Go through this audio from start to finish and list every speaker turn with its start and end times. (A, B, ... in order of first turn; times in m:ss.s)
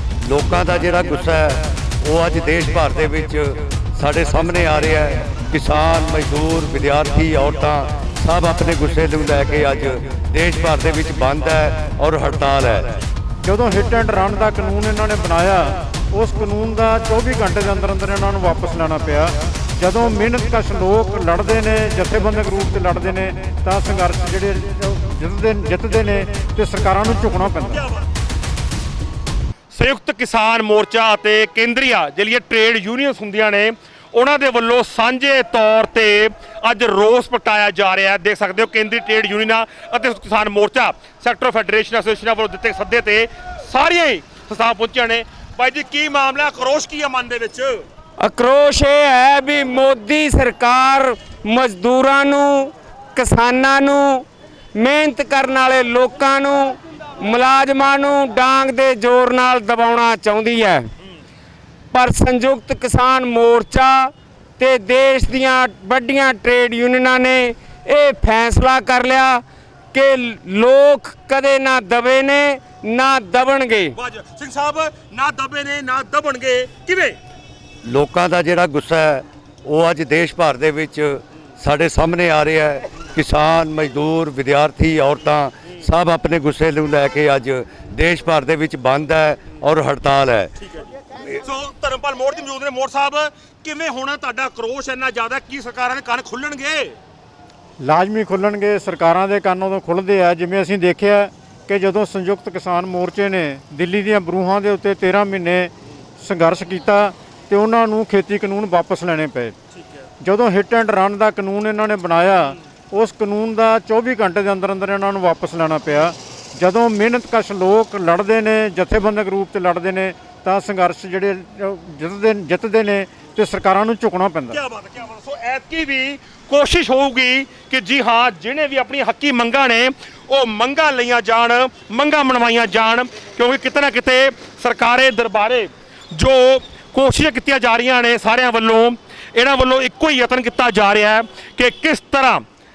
0:00.2-0:13.0 A
0:13.4-0:27.8 B
0:29.7-0:47.8 C
0:48.2-1:00.9 D
1:01.9-1:14.0 D
1:14.0-1:17.2 C
1:17.8-1:30.5 A
1:30.6-1:30.9 C
1:31.4-1:37.0 C
1:37.8-1:49.5 B
1:49.7-1:50.0 C
1:50.2-2:04.6 B
2:04.5-2:22.4 C